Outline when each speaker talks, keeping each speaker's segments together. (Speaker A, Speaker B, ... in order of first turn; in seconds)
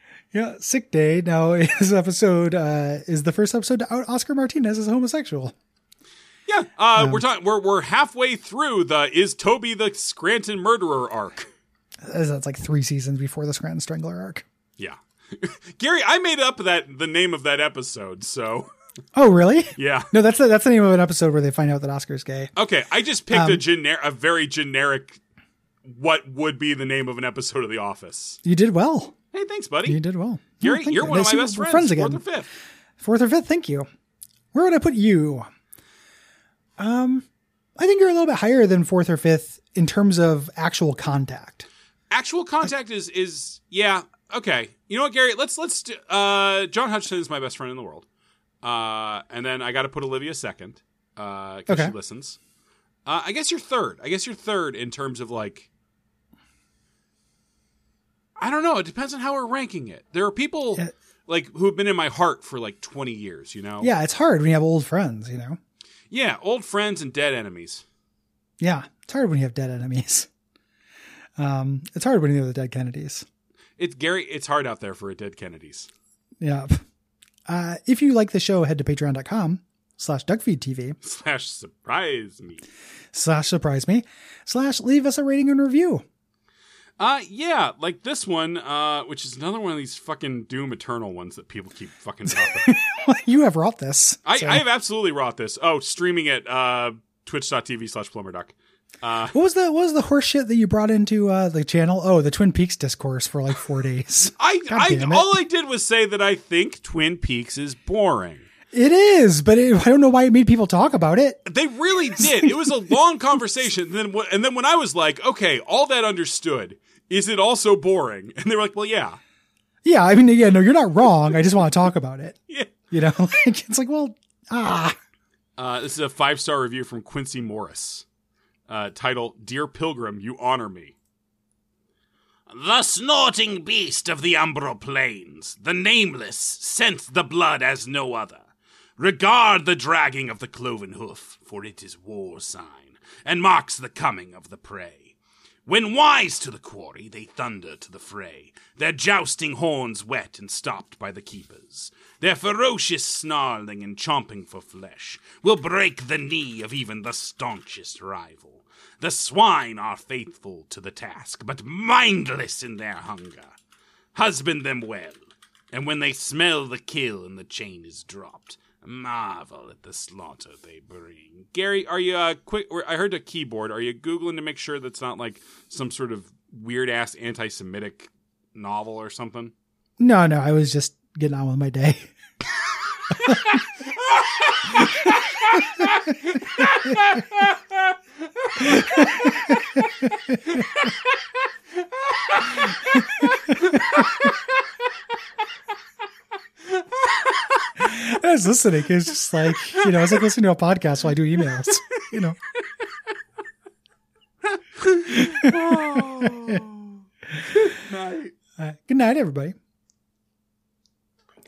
Speaker A: 0.3-5.5, 7.0-7.2, 12.1-14.4, 19.1-22.5, 23.3-23.6, 28.4-29.1, 29.9-32.2, 33.0-33.9, 34.5-35.5, 36.8-37.3, 37.8-41.7, 51.7-51.9, 63.8-65.6, 68.6-70.3, 71.4-73.2, 76.4-76.8, 77.5-81.0, 83.1-86.0, 92.3-94.6, 99.3-105.3, 108.7-111.4, 112.2-112.7, 119.8-122.4, 122.9-125.0, 180.0-182.1, 188.6-189.6, 197.8-202.4, 205.2-206.6, 208.6-209.6
Speaker B: 6.5-11.5, 14.8-18.7, 19.8-20.1, 22.6-25.2, 25.9-28.4, 29.3-30.0, 30.6-32.5, 42.1-48.1, 48.6-52.4, 53.1-55.7, 58.4-63.9, 66.1-67.8, 73.8-75.9, 81.0-82.7, 87.0-92.8, 94.3-99.3, 104.4-108.5, 111.5-119.2, 125.6-128.1, 128.7-131.0, 132.5-138.5, 139.0-145.2, 145.7-163.6, 164.2-179.5, 184.2-185.9, 186.6-187.6, 192.9-194.3, 201.7-202.0, 204.8-208.3